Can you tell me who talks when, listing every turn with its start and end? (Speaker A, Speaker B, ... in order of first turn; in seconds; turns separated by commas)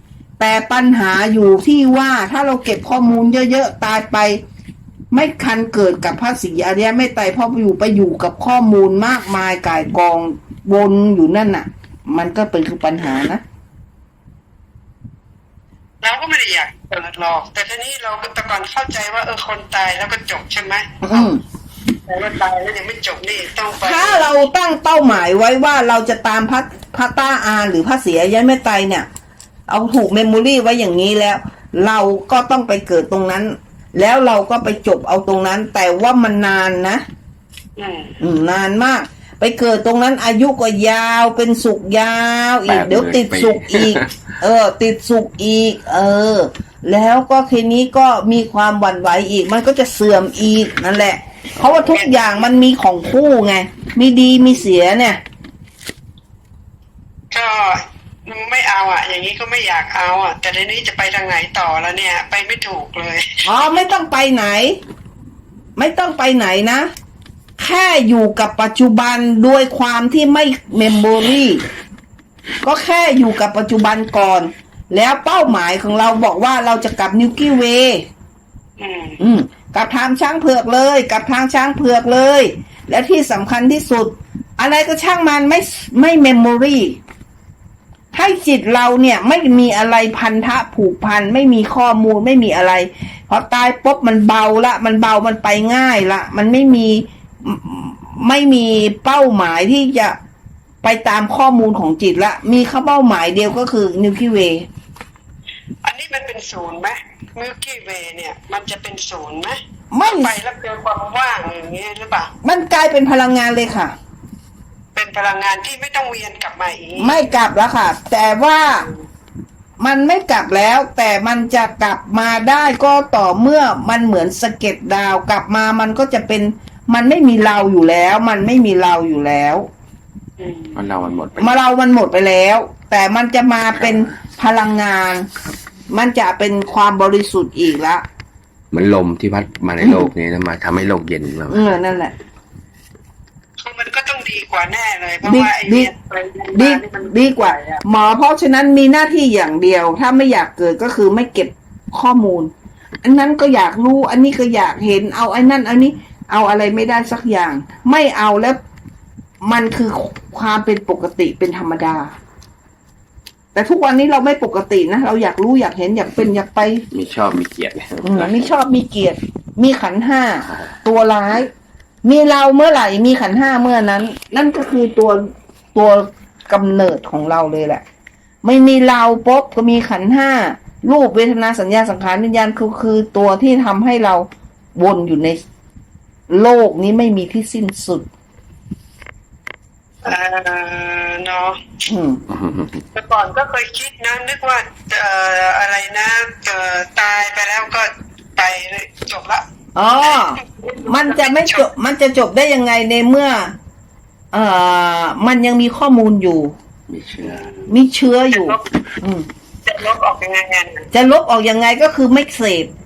Speaker A: 0.4-4.4, Speaker A: 5.1-13.4, Speaker B: 16.0-21.3, Speaker A: 21.0-21.4, Speaker B: 22.1-24.3, Speaker A: 23.8-29.1, Speaker A: 29.7-37.0, Speaker B: 37.8-38.2, Speaker A: 38.2-55.2, Speaker C: 42.6-44.3, Speaker B: 51.6-52.4, Speaker B: 57.3-63.5, Speaker A: 63.4-64.8, Speaker A: 65.8-66.9, Speaker A: 67.6-71.6, Speaker A: 72.6-78.0, Speaker B: 78.8-79.2, Speaker A: 79.2-87.0, Speaker A: 88.1-100.1, Speaker A: 100.8-104.7, Speaker B: 105.8-112.3, Speaker A: 109.9-110.3, Speaker A: 112.4-113.9, Speaker B: 114.9-117.3, Speaker A: 117.0-118.9, Speaker A: 119.8-129.7, Speaker B: 130.4-130.8, Speaker C: 130.7-131.6, Speaker A: 131.4-135.3, Speaker C: 133.8-134.1, Speaker A: 135.9-138.0, Speaker C: 138.7-141.7, Speaker A: 139.8-140.1, Speaker A: 141.5-142.1, Speaker B: 143.6-147.8, Speaker A: 145.2-145.9, Speaker A: 146.5-152.5, Speaker A: 153.0-158.6, Speaker A: 159.4-162.1, Speaker A: 163.5-166.8, Speaker C: 166.9-168.5, Speaker A: 168.0-171.5, Speaker A: 172.0-177.8, Speaker A: 178.4-185.4, Speaker A: 186.3-188.1, Speaker B: 190.0-191.6, Speaker A: 191.8-192.2, Speaker C: 192.3-192.8, Speaker B: 192.9-199.4, Speaker A: 199.8-203.5, Speaker B: 200.1-201.7, Speaker A: 204.3-206.5, Speaker C: 206.9-207.5, Speaker B: 207.2-207.7, Speaker A: 207.7-209.3, Speaker B: 208.3-208.7, Speaker B: 209.7-210.9, Speaker A: 210.9-212.7